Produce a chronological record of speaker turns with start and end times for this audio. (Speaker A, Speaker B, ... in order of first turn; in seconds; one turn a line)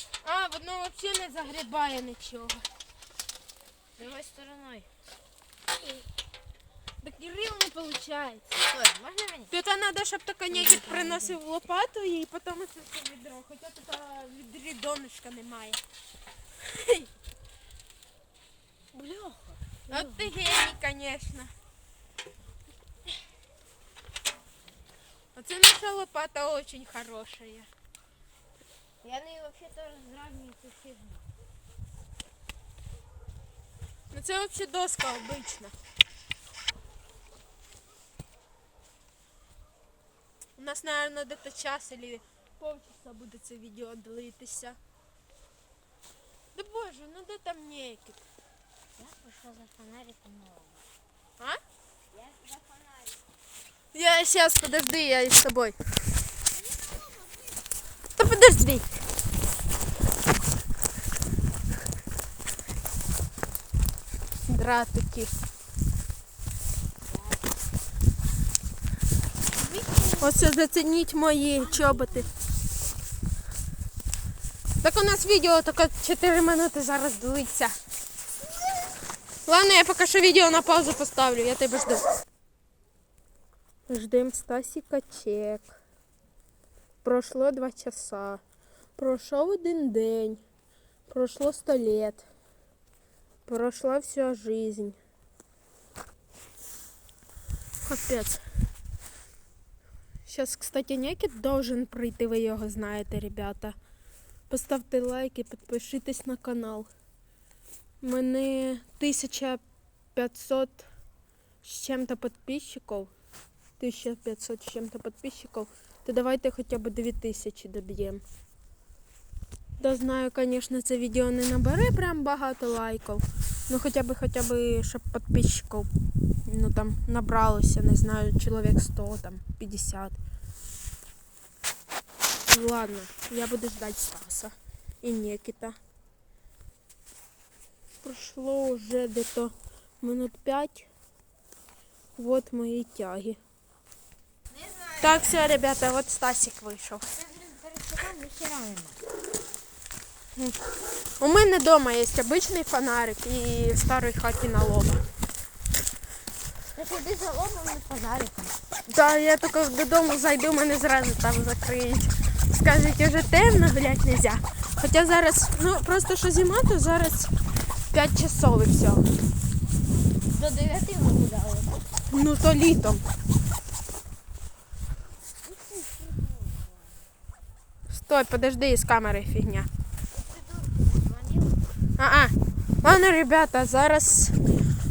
Speaker A: 0.2-2.6
Speaker B: 4.0-4.9
Speaker A: 7.0-8.6
Speaker B: 8.6-9.5
Speaker A: 9.5-15.8
Speaker B: 10.5-11.4
Speaker A: 16.6-17.1
Speaker B: 18.9-20.3
Speaker A: 19.9-21.5
Speaker A: 25.4-27.7
Speaker B: 29.0-31.2
Speaker A: 34.1-35.7
Speaker A: 40.6-44.8
Speaker A: 46.5-48.2
Speaker B: 49.0-50.9
Speaker B: 52.1-53.2
Speaker A: 53.9-55.8
Speaker B: 56.5-57.6
Speaker A: 58.2-58.9
Speaker A: 64.5-65.3
Speaker B: 69.5-70.4
Speaker A: 70.2-72.3
Speaker B: 71.6-72.3
Speaker A: 74.8-77.8
Speaker A: 79.5-82.0
Speaker A: 83.9-85.7
Speaker A: 87.0-88.4
Speaker A: 89.0-90.4
Speaker A: 91.1-92.2
Speaker A: 93.5-95.0
Speaker A: 97.8-98.4
Speaker A: 100.3-103.8
Speaker A: 104.5-106.9
Speaker A: 108.0-109.6
Speaker A: 110.2-110.9
Speaker A: 111.6-113.1
Speaker A: 113.8-118.2
Speaker A: 119.8-125.9
Speaker A: 126.5-130.2
Speaker A: 132.5-135.8
Speaker A: 138.0-140.9
Speaker A: 142.2-143.4
Speaker B: 144.6-145.3
Speaker A: 145.0-147.0
Speaker B: 147.2-149.0
Speaker A: 151.2-155.0
Speaker B: 156.7-158.6
Speaker A: 158.9-167.3
Speaker A: 167.9-169.0
Speaker B: 170.2-171.8
Speaker A: 172.1-173.0
Speaker B: 175.4-177.1
Speaker A: 177.9-179.7
Speaker B: 180.1-181.6
Speaker A: 182.0-184.4